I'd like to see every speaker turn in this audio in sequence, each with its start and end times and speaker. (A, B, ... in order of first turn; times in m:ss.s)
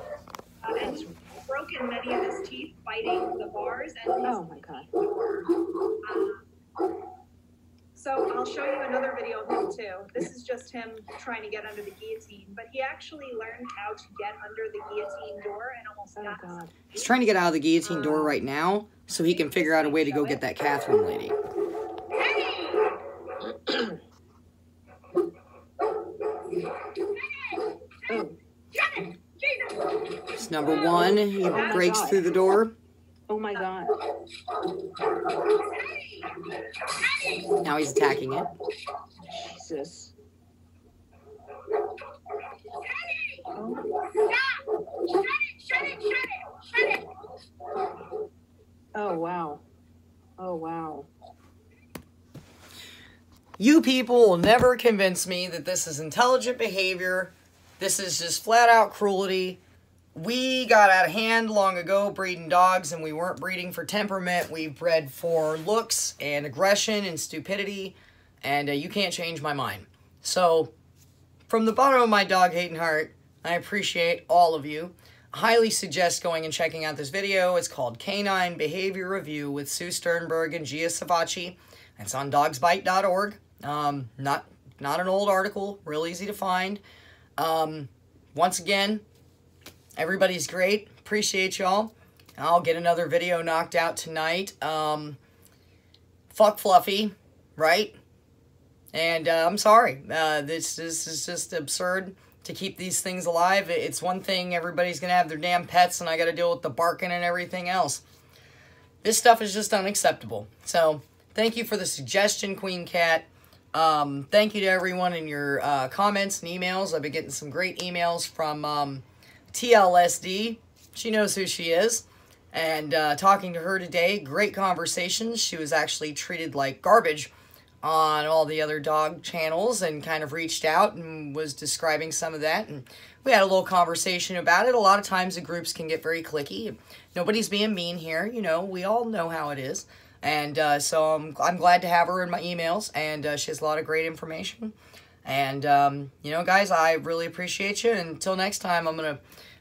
0:00.6-0:05.4 A
0:00.8-0:01.1 B
0:04.2-0:04.9 B
0:06.0-0:06.5 A
0:07.9-0:16.8 A
0:16.2-0:16.7 B
0:16.9-0:21.3 C
0:19.1-0:20.4 A
0:22.2-0:22.8 B
0:23.4-0:24.0 B
0:28.1-0:28.4 B
0:29.6-0:29.9 B
0:30.4-0:32.7 C
0:30.6-0:32.2 B
0:30.6-0:32.3 A
0:33.3-0:34.0 B
0:37.6-0:38.5 C
0:39.2-0:40.1 B
0:43.1-0:44.6 B
0:45.2-0:47.0 B
0:48.9-0:49.6 B
0:50.4-0:51.1 B
0:53.6-0:59.6 C
1:00.1-1:10.7 C
1:11.5-1:26.8 C
1:27.4-1:29.0 C
1:30.0-1:35.2 C
1:36.3-1:38.0 C
1:38.9-1:48.0 C
1:49.0-2:07.3 C
2:07.8-2:24.7 C
2:25.2-2:29.2 C